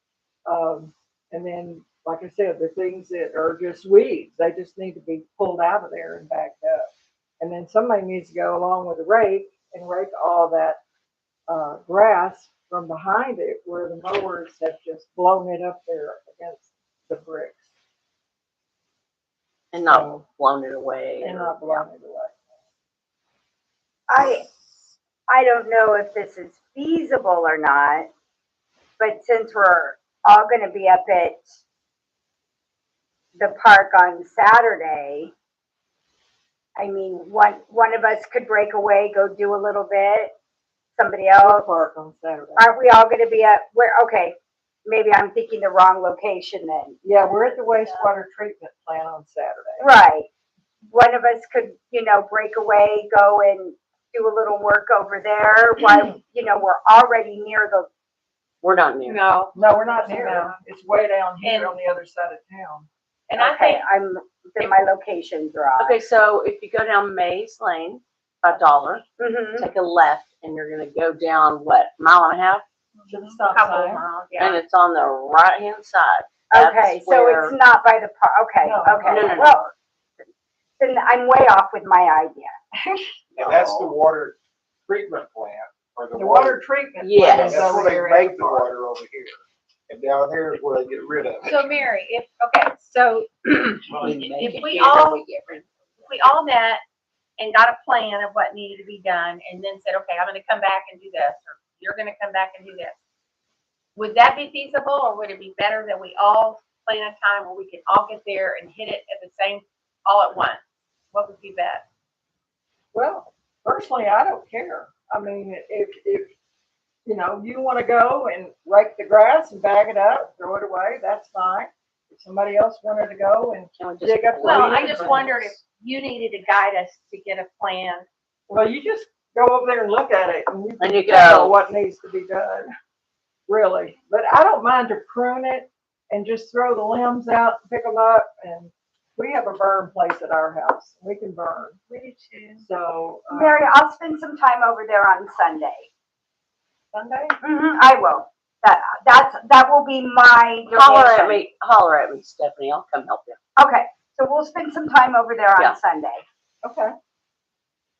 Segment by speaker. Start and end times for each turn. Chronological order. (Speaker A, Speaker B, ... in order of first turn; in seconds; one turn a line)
Speaker A: 0.5-6.9
Speaker A: 7.4-10.8
Speaker A: 11.5-17.6
Speaker B: 19.7-21.9
Speaker A: 19.8-20.2
Speaker A: 21.2-22.4
Speaker C: 24.1-24.5
Speaker C: 25.3-28.1
Speaker C: 29.0-31.6
Speaker C: 33.3-35.3
Speaker C: 36.8-40.3
Speaker C: 41.0-41.7
Speaker A: 41.4-42.7
Speaker C: 42.6-47.0
Speaker A: 47.0-49.9
Speaker D: 47.2-48.1
Speaker C: 49.8-50.3
Speaker C: 50.9-57.9
Speaker B: 58.6-59.2
Speaker D: 59.0-60.5
Speaker A: 59.5-62.9
Speaker D: 61.4-61.8
Speaker D: 63.3-63.8
Speaker C: 63.4-66.0
Speaker D: 64.6-64.9
Speaker B: 65.8-69.0
Speaker C: 69.2-69.7
Speaker B: 69.6-72.6
Speaker D: 73.0-74.6
Speaker A: 73.1-74.0
Speaker B: 74.4-77.6
Speaker C: 76.5-79.7
Speaker A: 78.6-79.6
Speaker B: 79.0-79.6
Speaker C: 80.8-82.5
Speaker A: 82.8-83.1
Speaker E: 83.3-84.3
Speaker E: 84.9-86.6
Speaker A: 86.1-88.7
Speaker B: 87.0-87.8
Speaker E: 87.3-91.7
Speaker D: 91.4-93.8
Speaker B: 93.8-95.7
Speaker D: 94.4-95.2
Speaker D: 96.0-96.8
Speaker D: 97.4-103.0
Speaker D: 104.0-110.6
Speaker D: 111.1-111.8
Speaker A: 112.9-116.3
Speaker A: 117.0-125.3
Speaker B: 123.8-125.5
Speaker D: 124.4-128.1
Speaker A: 128.5-132.7
Speaker B: 130.8-131.6
Speaker A: 133.5-141.8
Speaker D: 141.9-142.7
Speaker A: 142.6-143.7
Speaker C: 143.3-145.9
Speaker A: 146.9-147.4
Speaker C: 147.4-151.4
Speaker B: 150.7-153.4
Speaker C: 153.6-156.2
Speaker A: 156.6-156.9